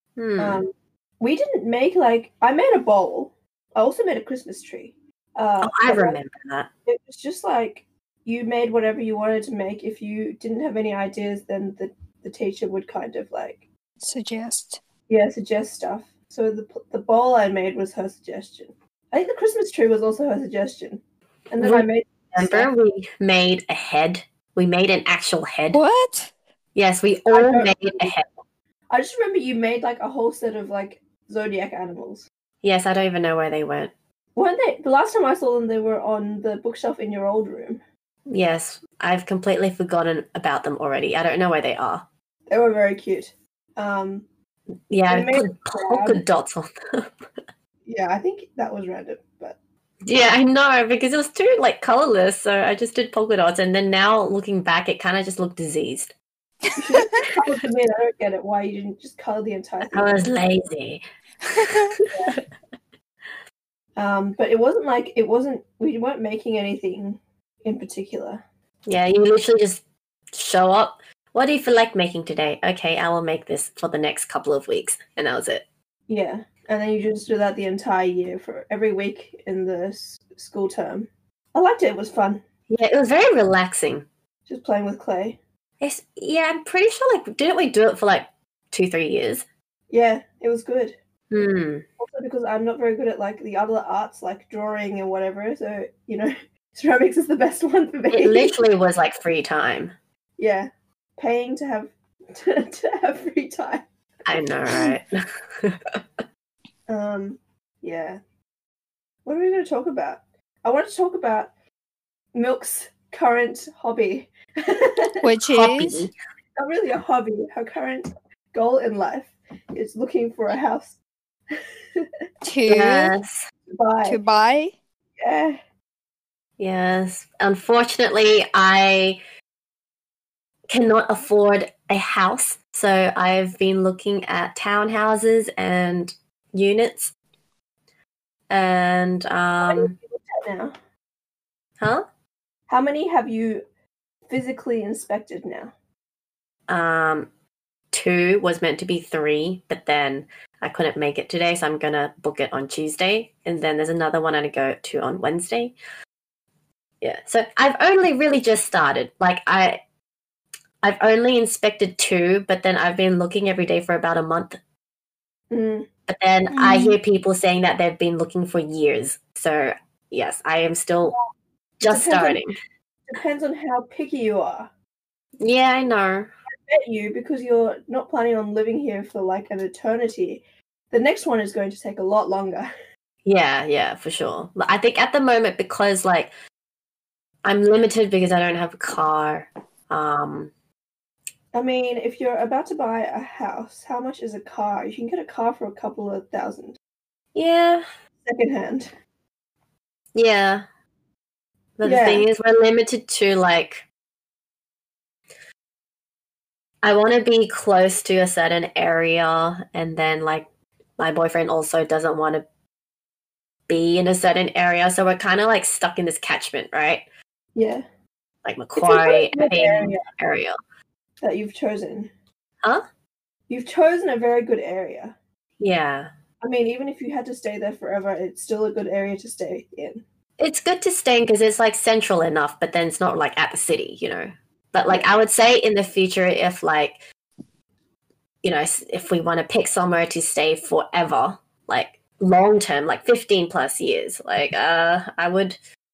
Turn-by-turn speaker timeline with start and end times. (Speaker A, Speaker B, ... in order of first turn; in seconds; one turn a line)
Speaker A: 0.1-0.7
Speaker B: 0.4-6.2
Speaker A: 5.6-6.7
Speaker B: 6.8-13.6
Speaker C: 14.0-14.8
Speaker B: 15.1-22.7
Speaker A: 21.6-25.8
Speaker C: 25.7-26.3
Speaker A: 26.7-28.3
Speaker B: 27.3-28.1
Speaker B: 28.9-32.2
Speaker A: 32.6-33.9
Speaker B: 34.4-37.8
Speaker A: 38.3-42.0
Speaker B: 42.5-44.2
Speaker A: 44.9-47.1
Speaker B: 45.1-46.2
Speaker B: 47.9-49.6
Speaker A: 50.0-56.1
Speaker C: 56.7-57.2
Speaker B: 56.8-60.3
Speaker A: 59.9-61.0
Speaker C: 61.5-61.9
Speaker A: 61.5-62.4
Speaker B: 64.0-68.4
Speaker A: 68.9-75.7
Speaker B: 76.1-82.4
Speaker A: 82.7-84.0
Speaker B: 84.5-85.4
Speaker A: 85.8-89.4
Speaker B: 89.9-91.0
Speaker A: 91.3-91.8
Speaker B: 92.0-98.5
Speaker A: 98.1-99.9
Speaker B: 100.4-103.8
Speaker A: 104.2-105.1
Speaker A: 105.6-106.0
Speaker B: 106.9-108.2
Speaker B: 109.2-111.5
Speaker B: 112.3-115.2
Speaker C: 115.2-116.1
Speaker A: 115.5-116.1
Speaker B: 116.6-121.0
Speaker B: 121.5-122.1
Speaker C: 122.4-123.1
Speaker A: 122.7-123.4
Speaker B: 123.7-124.2
Speaker C: 124.0-124.7
Speaker B: 125.2-125.6
Speaker A: 126.6-129.2
Speaker A: 130.7-137.1
Speaker A: 138.5-139.9
Speaker B: 139.6-140.7
Speaker A: 141.8-142.0
Speaker B: 142.7-143.6
Speaker B: 144.3-145.7
Speaker A: 146.7-147.3
Speaker A: 147.9-155.8
Speaker A: 157.0-159.8
Speaker A: 160.8-164.6
Speaker B: 165.5-165.9
Speaker A: 166.1-171.2
Speaker C: 166.6-166.9
Speaker A: 171.8-172.6
Speaker B: 171.8-172.4
Speaker B: 173.1-174.7
Speaker A: 175.4-176.3
Speaker B: 176.7-182.7
Speaker A: 183.2-186.3
Speaker A: 187.4-190.5
Speaker B: 191.5-196.8
Speaker A: 197.3-197.8
Speaker B: 198.2-198.9
Speaker A: 200.1-200.6
Speaker A: 201.8-203.8
Speaker B: 201.8-202.2
Speaker A: 206.8-210.5
Speaker A: 211.0-212.4
Speaker A: 213.7-217.0
Speaker B: 217.5-217.8
Speaker A: 218.4-220.6
Speaker B: 218.8-220.0
Speaker B: 221.2-222.1
Speaker B: 223.5-225.1
Speaker A: 225.6-226.1
Speaker B: 226.4-230.0
Speaker A: 230.4-237.0
Speaker A: 238.4-245.6